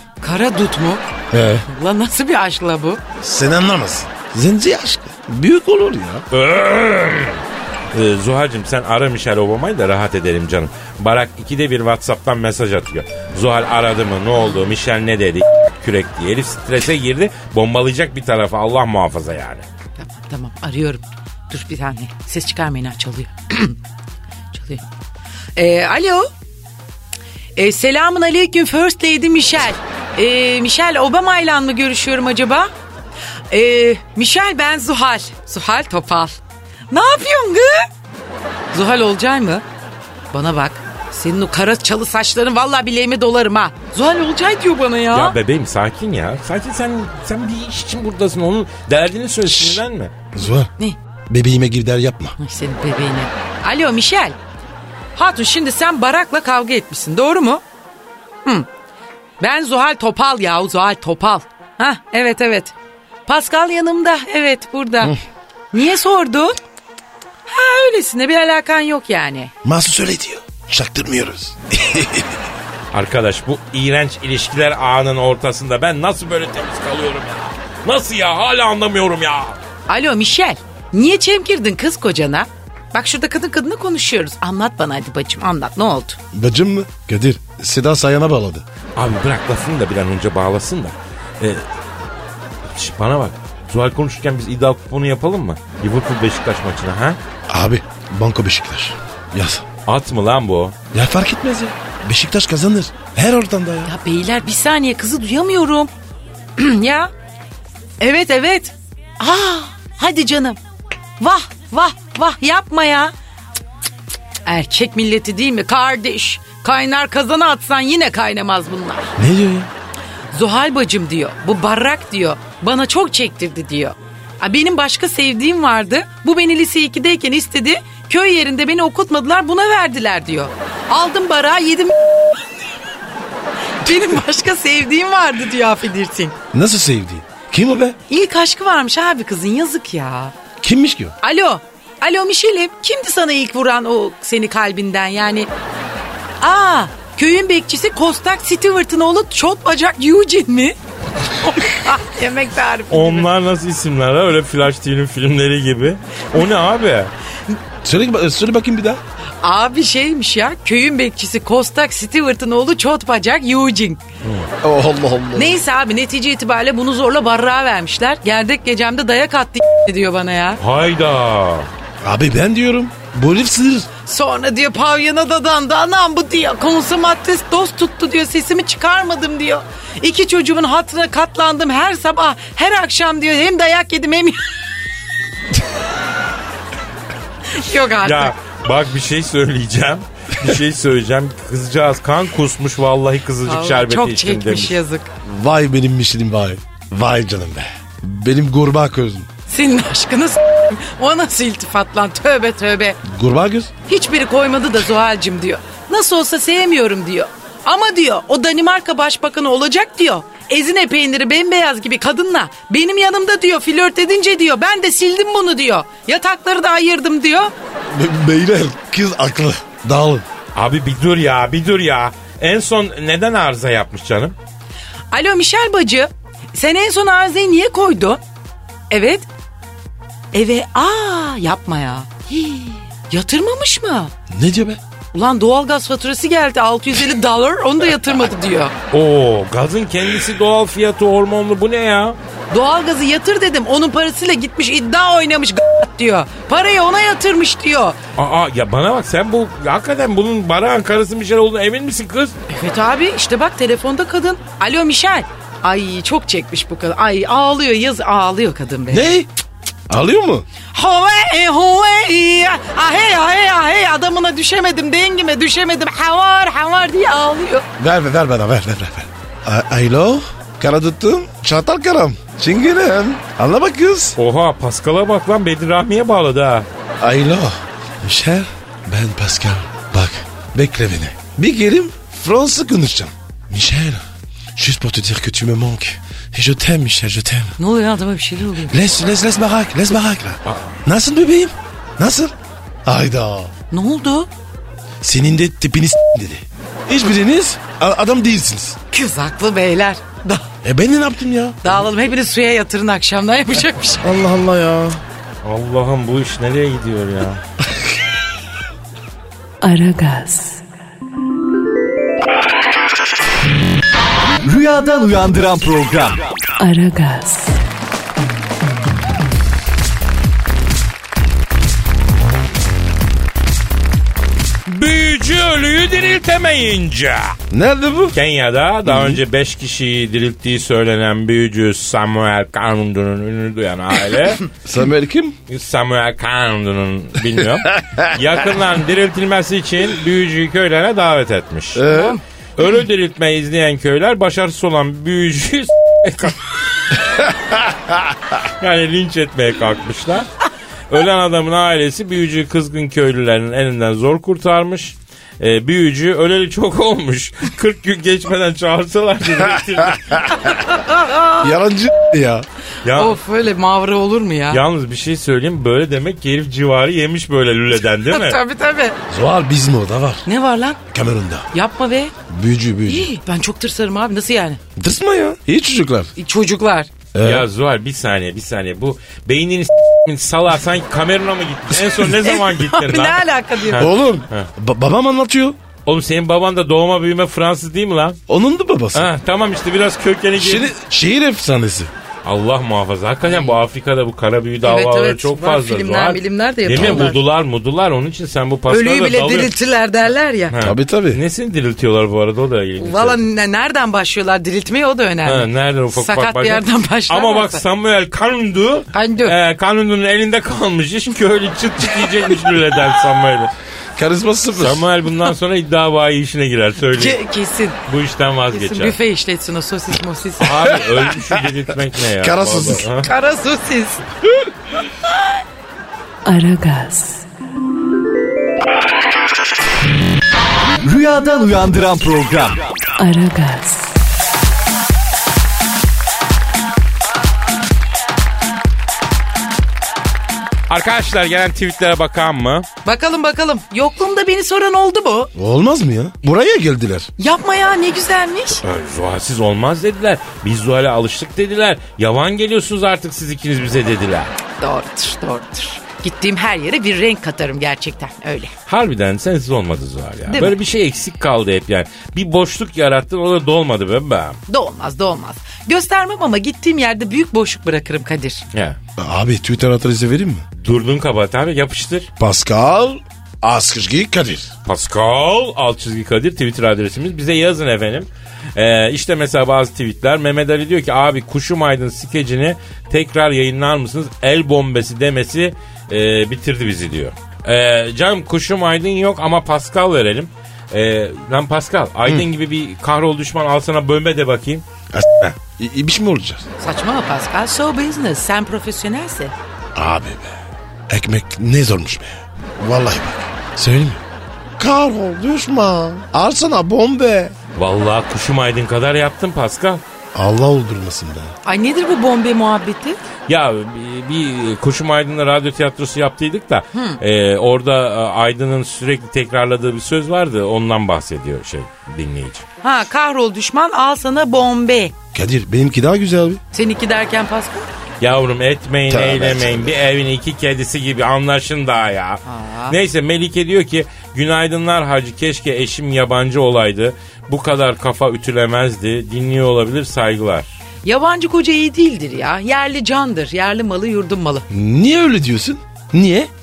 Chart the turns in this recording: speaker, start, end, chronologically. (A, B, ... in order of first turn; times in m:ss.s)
0:00.2-0:01.0 A
0:01.3-0:01.6 B
0:01.7-0:03.0 A
0:03.2-0:06.2 B
0:06.3-0:19.6 C
0:20.0-0:23.8 A
0:24.5-0:24.8 A
0:25.6-0:26.3 A
0:27.6-0:32.7 A
0:33.5-0:36.4 A
0:36.9-0:37.9 A
0:38.7-0:39.6 A
0:40.3-0:45.4 A
0:45.1-0:50.1 C
0:49.4-0:49.8 B
0:50.3-0:50.7 B
0:51.3-0:52.4 B
0:52.4-0:54.4 A
0:55.2-0:57.6 A
0:59.4-1:02.7 A
1:03.3-1:05.2 A
1:05.7-1:06.6 A
1:07.4-1:09.5 A
1:09.6-1:12.4 B
1:12.9-1:19.6 C
1:19.9-1:26.2 A
1:26.3-1:28.6 B
1:29.0-1:31.6 C
1:32.7-1:37.2 C
1:37.5-1:39.6 B
1:39.9-1:40.7 C
1:40.9-1:43.9 B
1:43.8-1:45.9 A
1:46.6-1:47.1 A
1:48.0-1:50.6 A
1:51.2-1:53.1 A
1:54.4-1:59.1 A
1:59.2-1:59.7 B
2:00.3-2:12.5 A
2:13.8-2:16.4 A
2:16.5-2:18.0 B
2:18.1-2:20.3 A
2:20.6-2:21.2 B
2:21.2-2:25.5 A
2:26.4-2:30.8 A
2:31.4-2:33.3 A
2:32.9-2:37.1 C
2:37.8-2:39.0 B
2:39.4-2:44.0 A
2:44.2-2:44.5 C
2:44.6-2:45.6 B
2:45.3-2:50.6 A
2:50.6-2:51.7 C
2:52.0-2:53.9 B
2:54.0-3:04.4 A
3:07.5-3:08.3 A
3:08.0-3:14.8 C
3:13.4-3:15.1 A
3:15.2-3:19.3 B
3:19.5-3:23.0 A
3:23.0-3:23.7 B
3:23.9-3:37.5 A
3:37.9-3:40.2 B
3:40.5-3:44.4 C
3:45.1-3:48.2 A
3:48.9-3:49.3 A
3:50.3-3:54.1 A
3:54.3-3:54.8 B
3:55.1-3:58.7 A
3:58.9-4:02.2 C
4:02.5-4:08.0 A
4:08.2-4:12.3 C
4:12.5-4:19.1 A
4:18.9-4:19.3 B
4:19.9-4:20.4 B
4:20.7-4:27.6 A
4:27.8-4:34.2 B
4:34.2-4:36.7 C
4:37.0-4:44.0 B
4:44.6-4:47.5 B
4:47.6-4:48.8 A
4:48.7-4:53.5 B
4:50.5-4:50.8 C
4:53.7-4:54.3 A
4:55.0-4:58.8 B
4:58.9-5:00.5 A
5:00.6-5:01.7 B
5:01.6-5:04.2 A
5:04.0-5:05.0 B
5:05.4-5:07.4 C
5:09.6-5:10.6 D
5:14.4-5:16.2 E
5:16.6-5:17.6 D
5:24.7-5:27.4 C
5:27.5-5:28.2 B
5:28.1-5:34.5 C
5:28.8-5:29.2 B
5:34.6-5:35.3 B
5:35.5-5:41.8 C
5:41.7-5:42.2 B
5:41.8-5:42.2 A
5:42.6-5:47.0 C
5:48.4-5:50.3 C
5:50.9-6:00.5 C
6:00.4-6:01.4 A
6:01.4-6:02.4 B
6:02.8-6:03.2 C
6:02.9-6:04.6 A
6:04.5-6:08.4 C
6:08.0-6:09.0 A
6:09.1-6:10.2 B
6:10.2-6:10.8 A
6:10.9-6:11.5 B
6:11.5-6:12.1 A
6:12.3-6:13.1 B
6:12.9-6:14.6 A
6:14.8-6:16.1 B
6:16.2-6:16.9 A
6:17.1-6:17.5 B
6:17.2-6:24.5 C
6:22.2-6:23.9 A
6:23.8-6:25.6 B
6:25.8-6:28.2 C
6:28.3-6:29.1 B
6:28.9-6:30.7 C
6:30.3-6:31.9 B
6:32.2-6:39.5 C
6:33.2-6:33.6 A
6:34.6-6:37.2 A
6:36.7-6:37.0 B
6:38.7-6:40.5 A
6:40.5-6:43.2 C
6:40.6-6:41.2 B
6:42.8-6:47.6 A
6:45.2-6:53.5 C
6:48.9-6:49.4 A
6:54.0-6:54.8 B
6:54.6-6:57.2 C
6:56.9-6:57.8 A
6:57.9-6:59.0 C
6:58.5-7:00.5 A
7:00.4-7:03.1 C
7:02.2-7:02.8 B
7:03.0-7:04.0 A
7:06.2-7:07.2 D
7:10.8-7:12.6 E
7:13.0-7:14.0 D
7:20.7-7:22.6 C
7:22.8-7:25.3 A
7:25.3-7:27.1 B
7:27.2-7:28.6 A
7:28.6-7:34.3 C
7:34.6-7:38.5 A
7:38.7-7:44.4 C
7:40.3-7:40.6 A
7:44.5-7:48.4 A
7:48.5-7:48.8 C
7:49.0-7:50.4 B
7:50.6-7:52.1 C
7:52.2-7:54.5 B
7:54.6-8:14.6 C
8:14.9-8:16.4 B
8:16.6-8:19.3 A
8:19.8-8:20.4 B
8:20.9-8:24.0 B
8:24.6-8:27.3 B
8:27.6-8:29.8 C
8:30.1-8:31.3 B
8:31.4-8:33.0 A
8:33.3-8:42.4 C
8:36.7-8:37.0 A
8:42.6-8:44.9 A
8:45.1-8:46.4 B
8:46.5-8:47.7 A
8:48.0-9:00.5 C
8:48.9-8:49.8 B
8:52.2-8:52.8 A
9:00.8-9:04.4 A
9:04.5-9:06.3 B